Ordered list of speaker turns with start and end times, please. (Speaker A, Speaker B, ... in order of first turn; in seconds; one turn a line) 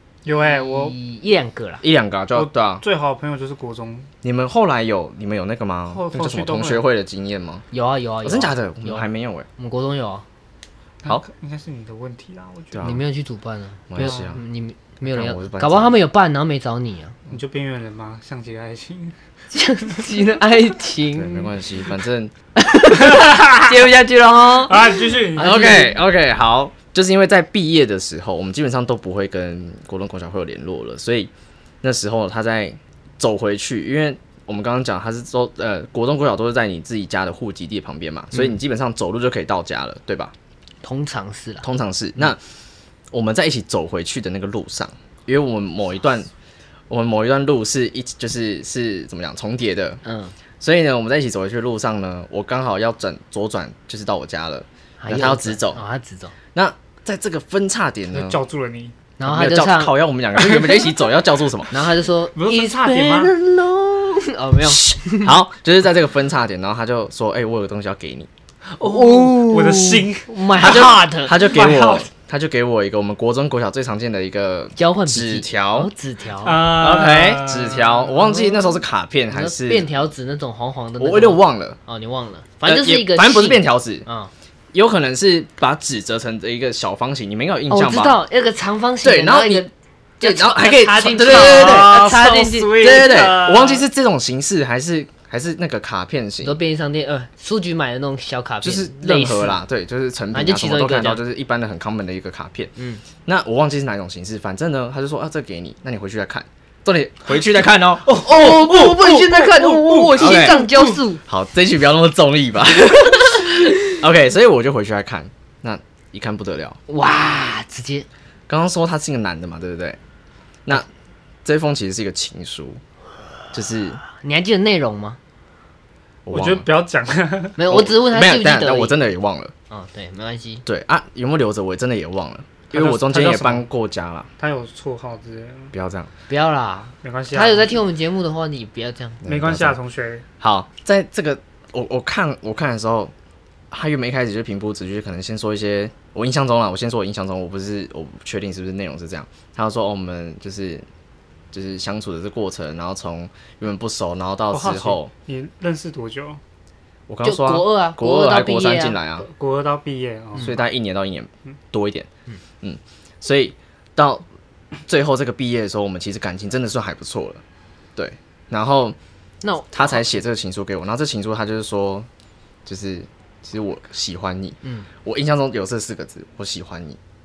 Speaker A: 0.2-1.0
Speaker B: 0.4-1.8
Speaker C: 1.8-2.8
Speaker A: 2.3-4.1
Speaker C: 4.2-7.7
Speaker A: 5.9-6.8
Speaker B: 7.7-10.2
Speaker C: 8.2-9.5
Speaker A: 11.0-13.0
Speaker C: 12.7-13.0
Speaker B: 12.8-17.2
Speaker C: 13.9-14.4
Speaker A: 14.0-14.2
Speaker C: 15.0-16.0
Speaker A: 17.3-19.1
Speaker B: 19.5-21.5
Speaker C: 21.1-22.3
Speaker B: 22.6-26.0
Speaker A: 22.9-23.8
Speaker A: 24.5-25.7
Speaker C: 25.3-31.3
Speaker C: 31.8-40.3
Speaker B: 40.8-41.7
Speaker C: 41.6-42.4
Speaker C: 43.1-46.3
Speaker C: 46.9-50.0
Speaker B: 50.0-50.3
Speaker C: 50.6-55.8
Speaker B: 55.0-56.3
Speaker C: 56.5-58.4
Speaker A: 58.1-59.0
Speaker B: 59.2-60.0
Speaker C: 59.2-61.7
Speaker A: 60.3-60.9
Speaker B: 61.7-65.3
Speaker A: 62.3-63.3
Speaker C: 64.7-68.3
Speaker A: 68.7-70.8
Speaker B: 68.8-71.4
Speaker C: 70.6-75.9
Speaker A: 71.4-72.1
Speaker B: 74.8-76.7
Speaker A: 76.4-78.8
Speaker C: 76.7-79.9
Speaker B: 79.3-84.3
Speaker C: 81.0-81.8
Speaker C: 82.6-84.0
Speaker C: 84.7-88.2
Speaker B: 87.7-89.7
Speaker C: 89.0-89.7
Speaker B: 90.2-92.9
Speaker C: 90.2-91.9
Speaker A: 90.5-93.9
Speaker C: 92.8-96.6
Speaker B: 96.4-99.6
Speaker C: 98.6-102.7
Speaker B: 100.3-101.2
Speaker B: 102.8-103.0
Speaker C: 103.2-109.2
Speaker A: 108.0-110.9
Speaker B: 108.2-111.2
Speaker C: 110.1-110.6
Speaker C: 111.2-116.8
Speaker B: 116.9-118.1
Speaker C: 118.5-120.0
Speaker C: 121.4-122.8
Speaker C: 123.5-124.0
Speaker B: 124.1-125.2
Speaker C: 126.2-126.7
Speaker A: 126.3-127.6
Speaker B: 127.6-129.0
Speaker C: 127.7-129.5
Speaker B: 129.7-130.6
Speaker C: 130.7-134.3
Speaker A: 132.7-133.7
Speaker A: 134.4-135.7
Speaker C: 135.7-136.1
Speaker B: 136.3-139.2
Speaker A: 137.0-137.8
Speaker C: 139.2-139.8
Speaker A: 139.2-140.2
Speaker C: 140.4-143.1
Speaker C: 143.7-150.8
Speaker C: 151.5-155.1
Speaker A: 154.5-156.4
Speaker C: 157.1-159.2
Speaker B: 157.2-159.0
Speaker A: 159.2-160.5
Speaker C: 160.3-162.1
Speaker C: 162.6-164.2
Speaker C: 164.9-167.4
Speaker C: 167.9-168.9
Speaker B: 169.4-170.1
Speaker C: 169.7-172.1
Speaker C: 172.7-177.0
Speaker B: 174.6-174.9